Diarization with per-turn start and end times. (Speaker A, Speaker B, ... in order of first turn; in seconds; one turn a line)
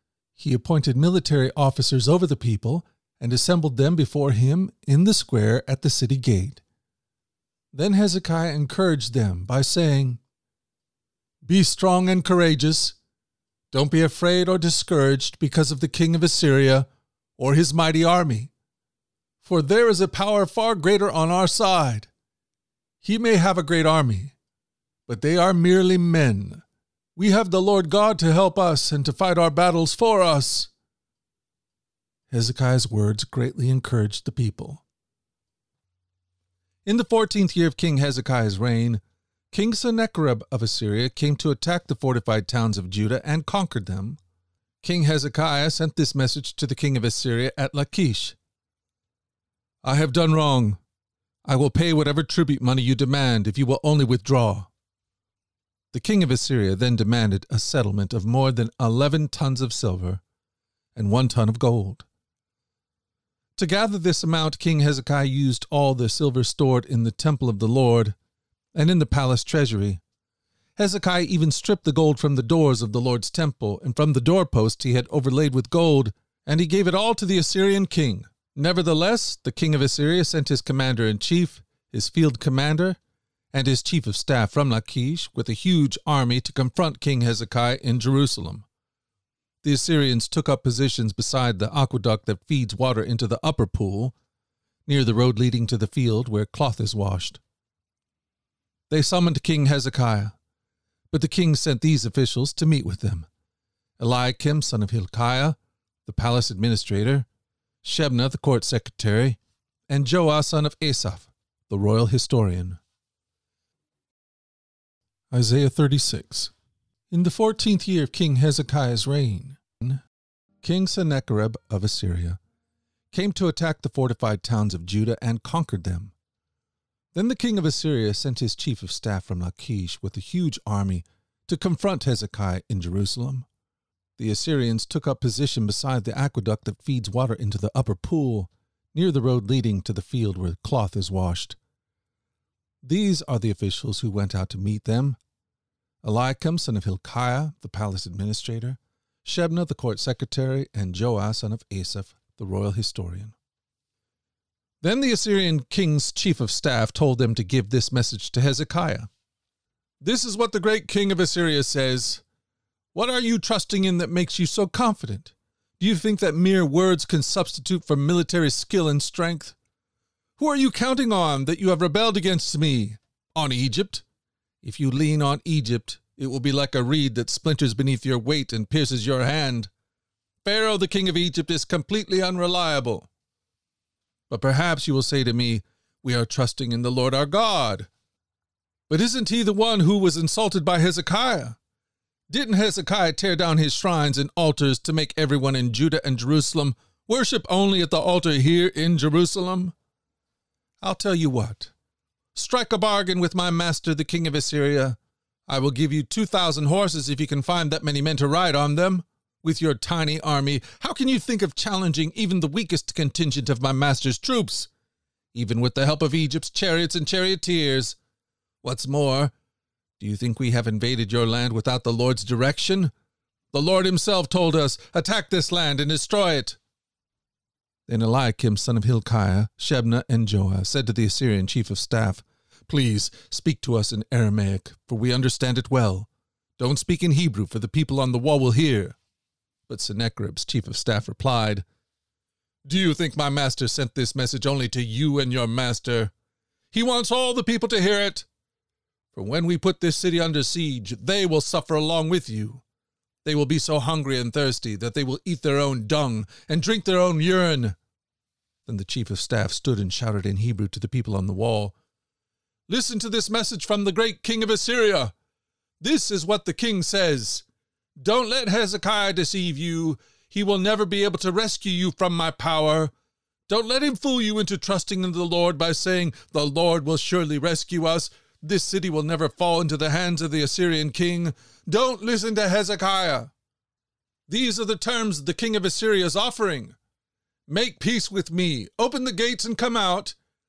Speaker A: 0.3-6.6
Speaker A: 7.7-10.2
Speaker A: 11.4-13.0
Speaker A: 13.7-16.9
Speaker A: 17.4-18.5
Speaker A: 19.4-22.1
Speaker A: 23.0-24.3
Speaker A: 25.1-26.6
Speaker A: 27.1-30.7
Speaker A: 32.3-34.8
Speaker A: 36.9-44.2
Speaker A: 44.8-48.4
Speaker A: 49.8-50.8
Speaker A: 51.5-54.7
Speaker A: 55.9-60.2
Speaker A: 60.9-62.0
Speaker A: 63.5-68.1
Speaker A: 68.8-70.0
Speaker A: 70.8-83.0
Speaker A: 83.5-88.7
Speaker A: 89.6-94.1
Speaker A: 94.9-97.4
Speaker A: 98.9-100.3
Speaker A: 101.1-103.3
Speaker A: 104.0-107.3
Speaker A: 107.8-112.8
Speaker A: 115.3-116.5
Speaker A: 117.1-120.0
Speaker A: 120.6-122.4
Speaker A: 123.1-126.1
Speaker A: 127.1-133.5
Speaker A: 134.2-141.6
Speaker A: 142.8-145.2
Speaker A: 146.0-153.3
Speaker A: 154.8-159.1
Speaker A: 160.0-162.2
Speaker A: 162.9-169.6
Speaker A: 170.4-174.0
Speaker A: 174.6-179.7
Speaker A: 180.4-183.1
Speaker A: 184.3-187.9
Speaker A: 188.9-191.6
Speaker A: 192.3-199.8
Speaker A: 200.8-201.7
Speaker A: 202.3-214.7
Speaker A: 215.3-218.0
Speaker A: 218.6-219.3
Speaker A: 220.0-222.9
Speaker A: 223.5-226.6
Speaker A: 227.9-239.0
Speaker A: 239.7-241.6
Speaker A: 242.6-246.1
Speaker A: 246.7-248.3
Speaker A: 249.1-252.6
Speaker A: 253.2-257.8
Speaker A: 258.6-261.8
Speaker A: 262.7-265.1
Speaker A: 265.8-267.4
Speaker A: 268.0-272.9
Speaker A: 273.5-283.3
Speaker A: 284.3-286.8
Speaker A: 287.5-290.1